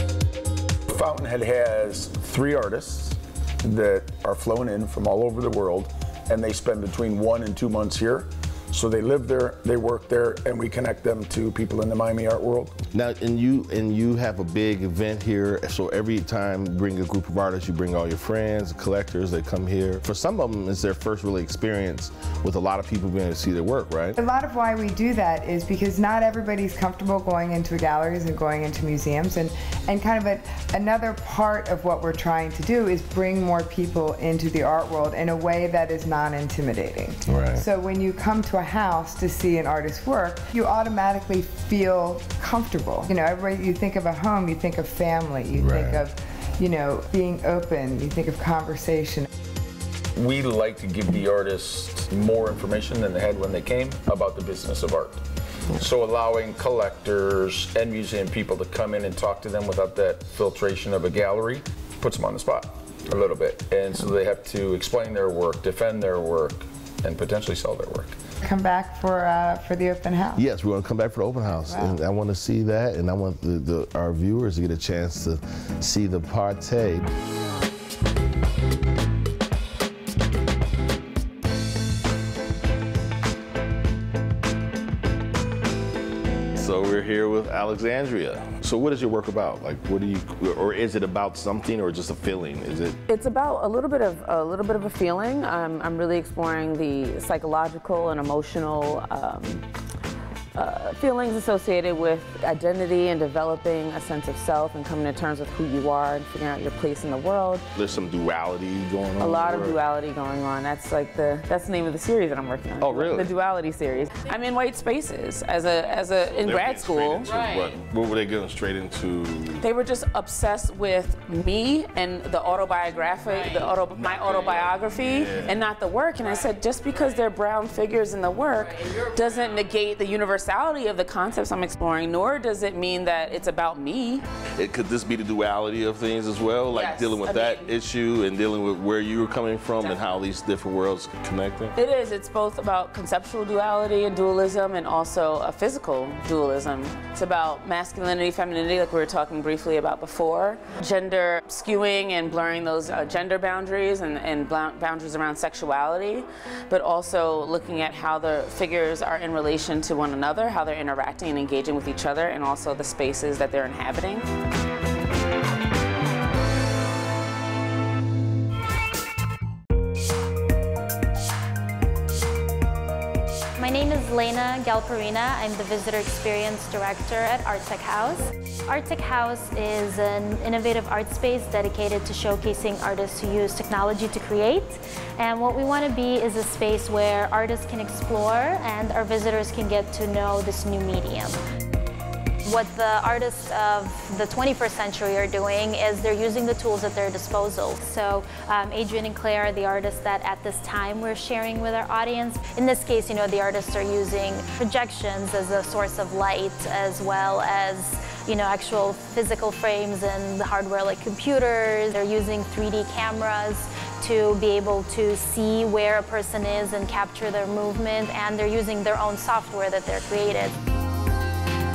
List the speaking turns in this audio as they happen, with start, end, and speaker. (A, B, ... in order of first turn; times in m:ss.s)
0:00.9-0:12.8 A
0:12.9-0:24.2 B
0:24.2-0:49.2 C
0:37.3-0:37.6 B
0:45.5-0:46.0 B
0:50.2-1:08.2 A
1:08.4-1:10.4 C
1:10.4-1:17.0 B
1:11.7-1:12.0 C
1:26.6-1:33.0 B
1:33.1-1:39.6 D
1:40.5-1:47.6 D
1:47.7-1:49.8 B
1:49.2-1:57.4 D
1:52.8-1:53.3 B
1:56.4-1:59.6 B
1:59.6-2:14.2 D
2:03.9-2:05.5 B
2:14.6-2:21.7 B
2:16.7-2:17.7 D
2:21.8-2:44.2 D
2:53.6-3:11.4 E
3:12.4-3:40.5 E